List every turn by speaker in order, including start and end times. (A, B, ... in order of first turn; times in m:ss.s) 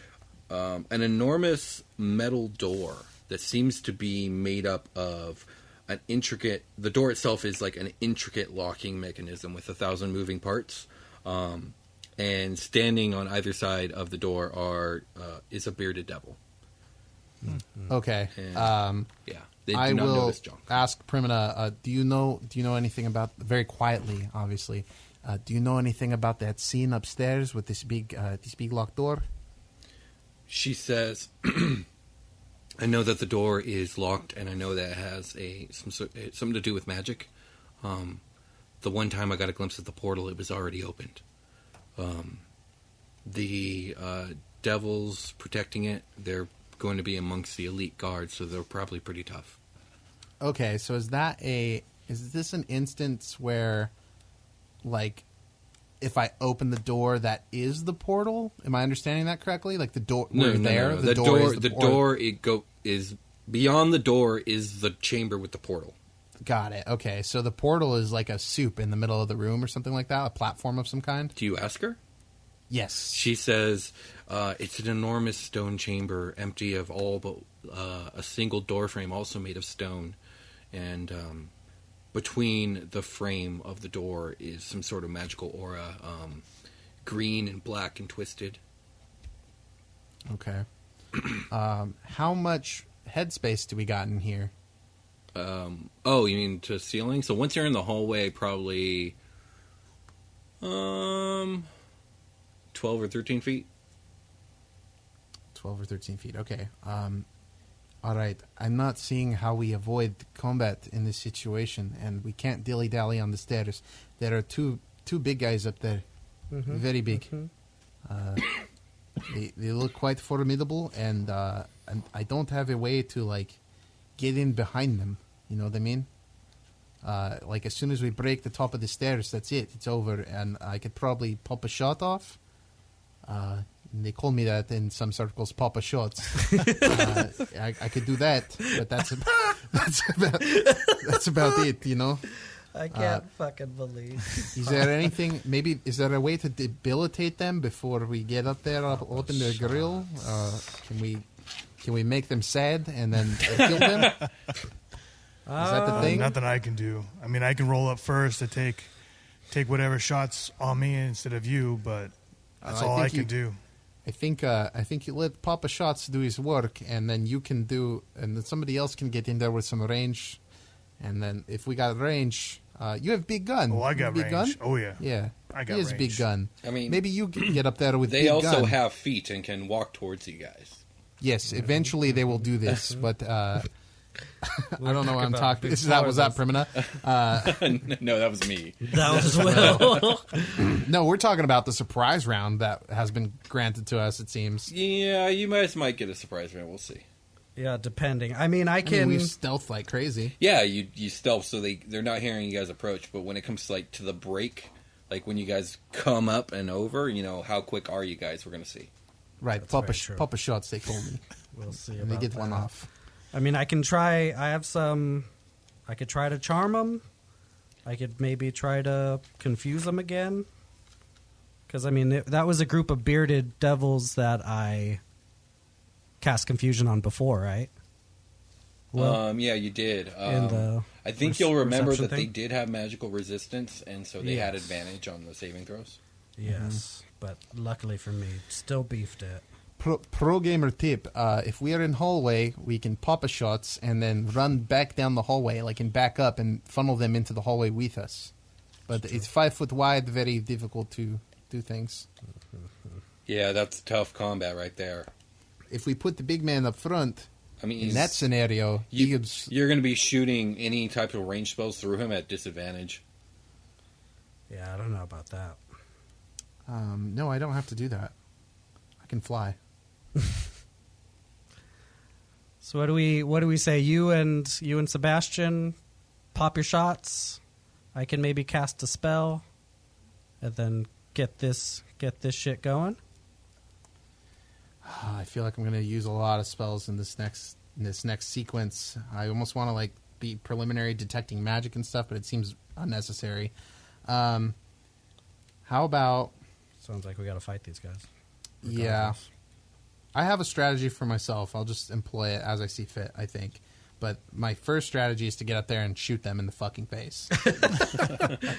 0:00.5-0:16.4 A
0:17.4-0:17.9 B
0:17.9-0:19.1 C
0:18.4-0:18.7 A
0:19.2-0:20.8 A
0:19.7-0:29.2 C
0:30.5-0:31.8 A
0:32.8-0:37.3 A
0:37.8-0:38.2 A
0:38.8-0:41.2 A
0:42.0-0:42.4 A
0:43.2-0:49.6 A
0:50.4-0:53.9 C
0:54.8-0:55.2 C
0:56.0-1:02.1 C
1:00.3-1:05.9 A
1:06.4-1:11.3 C
1:11.4-1:12.0 A
1:12.7-1:13.2 C
1:13.1-1:20.2 A
1:20.7-1:21.5 A
1:22.1-1:26.4 A
1:27.0-1:28.6 A
1:30.3-1:30.6 C
1:31.5-1:34.5 C
1:35.3-1:39.2 A
1:40.6-1:41.7 A
1:42.7-1:43.7 A
1:45.5-1:47.2 C
1:48.0-1:56.0 C
1:56.5-1:57.5 B
1:56.6-1:57.3 C
1:58.0-1:58.6 C
1:59.3-2:03.6 C
2:04.2-2:06.1 C
2:07.0-2:12.4 C
2:13.2-2:22.2 C
2:16.4-2:17.2 B
2:20.4-2:21.2 B
2:22.7-2:24.8 B
2:22.9-2:23.2 C
2:24.5-2:31.3 C
2:31.8-2:34.2 C
2:33.5-2:34.1 A
2:35.5-2:36.3 B
2:35.6-2:36.4 C
2:35.9-2:38.9 D
2:39.5-2:43.6 D
2:42.6-2:43.3 C
2:44.0-2:50.4 C
2:51.0-2:58.8 C
2:53.7-2:56.2 D
2:56.6-2:57.0 A
2:58.0-3:00.8 A
3:01.2-3:03.7 C
3:04.4-3:07.8 C
3:04.8-3:06.4 B
3:06.8-3:10.2 A
3:08.8-3:10.7 B
3:10.6-3:14.7 C
3:14.7-3:17.0 A
3:17.6-3:19.3 B
3:18.8-3:20.3 C
3:20.4-3:28.9 A
3:29.4-3:31.2 C
3:29.6-3:30.3 B
3:31.5-3:32.7 B
3:31.9-3:32.9 C
3:33.3-3:35.3 B
3:35.9-3:37.0 B
3:37.8-3:40.5 B
3:41.7-3:45.0 B
3:46.2-3:47.7 B
3:48.9-3:49.2 B
3:49.0-3:56.0 A
3:50.2-3:52.3 B
3:54.2-3:54.7 B
3:56.4-3:59.4 B
3:56.4-3:56.8 C
3:59.8-4:08.3 C
4:08.9-4:12.1 C
4:13.2-4:15.1 A
4:15.7-4:17.3 C
4:17.6-4:18.2 A
4:17.8-4:19.5 C
4:18.9-4:23.0 A
4:24.5-4:25.6 B
4:26.7-4:28.1 C
4:29.0-4:29.6 C
4:32.6-4:35.8 B
4:36.3-4:37.4 B
4:37.9-4:39.4 B
4:40.4-4:43.0 B
4:44.8-4:53.5 C
4:54.0-4:54.5 C
4:55.6-4:56.3 C
4:56.8-4:58.0 B
4:58.6-4:59.2 C
4:58.6-4:59.2 B
5:00.1-5:07.7 C
5:07.4-5:08.2 B